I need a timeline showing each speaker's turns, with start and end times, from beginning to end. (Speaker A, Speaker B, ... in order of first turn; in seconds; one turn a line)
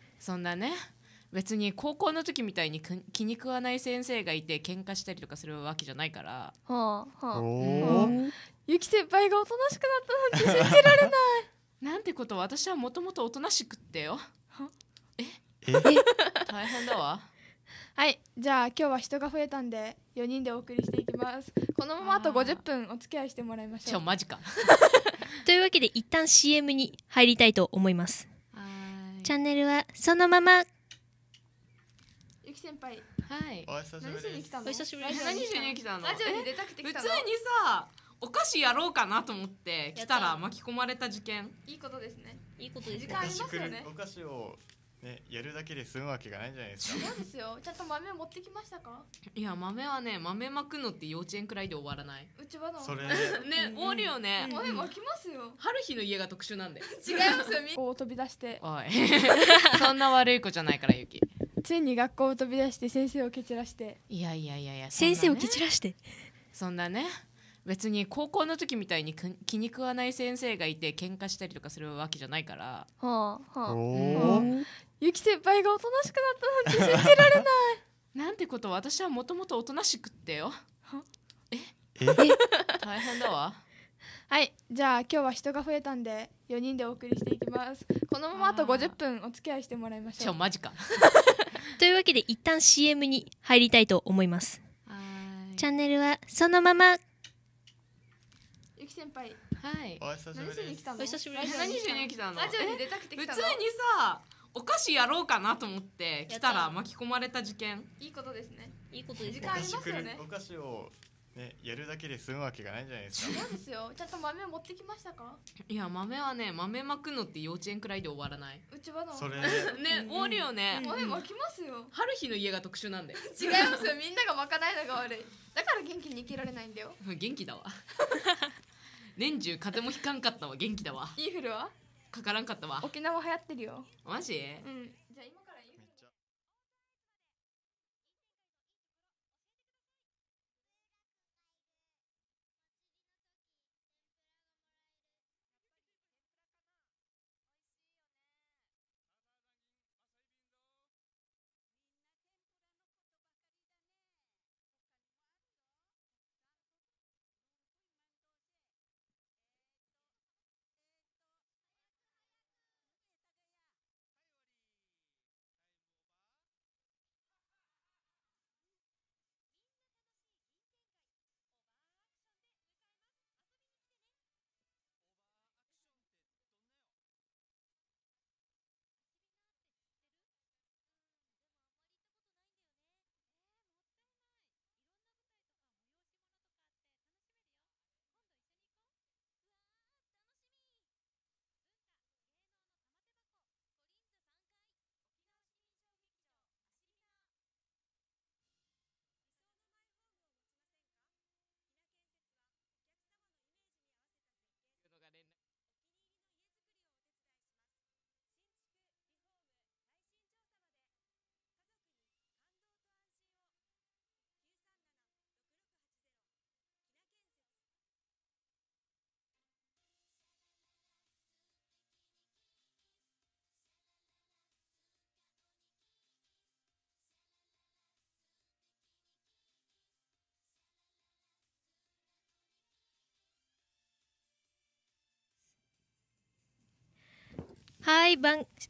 Speaker A: 0.2-6.5
Speaker B: 6.7-8.2
Speaker C: 7.3-8.1
Speaker A: 7.6-8.3
Speaker D: 7.9-8.3
Speaker B: 8.7-11.5
Speaker C: 10.5-11.0
Speaker A: 11.8-14.2
Speaker C: 15.6-15.9
Speaker A: 16.5-17.3
Speaker B: 18.0-24.0
Speaker A: 22.0-22.6
Speaker A: 23.9-24.8
Speaker D: 25.4-28.3
Speaker A: 28.5-29.3
Speaker D: 29.2-30.7
Speaker B: 32.4-33.1
Speaker A: 33.2-33.7
Speaker C: 33.7-34.5
Speaker B: 34.0-37.2
Speaker D: 34.6-35.6
Speaker A: 35.1-41.5
Speaker D: 40.0-40.4
Speaker B: 41.7-43.9
Speaker D: 42.6-43.2
Speaker C: 43.0-47.1
Speaker B: 46.9-49.1
Speaker A: 49.4-52.3
Speaker B: 52.4-55.6
Speaker C: 52.8-53.4
Speaker A: 53.1-54.9
Speaker D: 53.7-54.6
Speaker A: 55.6-57.4
Speaker B: 56.9-58.6
Speaker A: 58.6-61.3
Speaker D: 59.4-59.8
Speaker B: 61.6-64.0
Speaker A: 64.1-65.6
Speaker D: 64.9-66.0
Speaker A: 66.5-72.9
Speaker B: 73.0-77.8
Speaker C: 73.7-74.5
Speaker A: 73.9-74.5
Speaker D: 74.2-74.7
Speaker C: 76.8-77.4
Speaker A: 78.1-80.5
Speaker A: 81.5-82.2
Speaker A: 82.8-83.6
Speaker B: 84.3-90.4
Speaker A: 88.3-89.0
Speaker A: 90.2-91.1
Speaker D: 91.8-94.6
Speaker A: 94.9-95.7
Speaker D: 95.6-97.0
Speaker B: 98.8-99.4
Speaker A: 99.6-100.0
Speaker C: 100.0-101.0
Speaker B: 100.3-103.6
Speaker D: 101.0-101.9
Speaker A: 101.3-107.9
Speaker D: 106.3-106.8
Speaker B: 108.0-108.7
Speaker D: 108.9-109.6
Speaker C: 109.2-113.5
Speaker B: 109.2-110.2
Speaker B: 113.2-115.4
Speaker A: 115.7-118.6
Speaker B: 118.7-119.7
Speaker C: 119.1-119.8
Speaker A: 119.4-121.2
Speaker D: 119.9-121.2
Speaker B: 120.7-121.9
Speaker A: 121.9-123.8
Speaker B: 123.2-127.0
Speaker A: 127.0-127.7
Speaker A: 129.2-131.2
Speaker B: 131.2-131.7
Speaker A: 132.1-132.9
Speaker B: 132.8-133.9
Speaker A: 134.1-134.7
Speaker B: 134.6-135.8
Speaker D: 237.8-238.5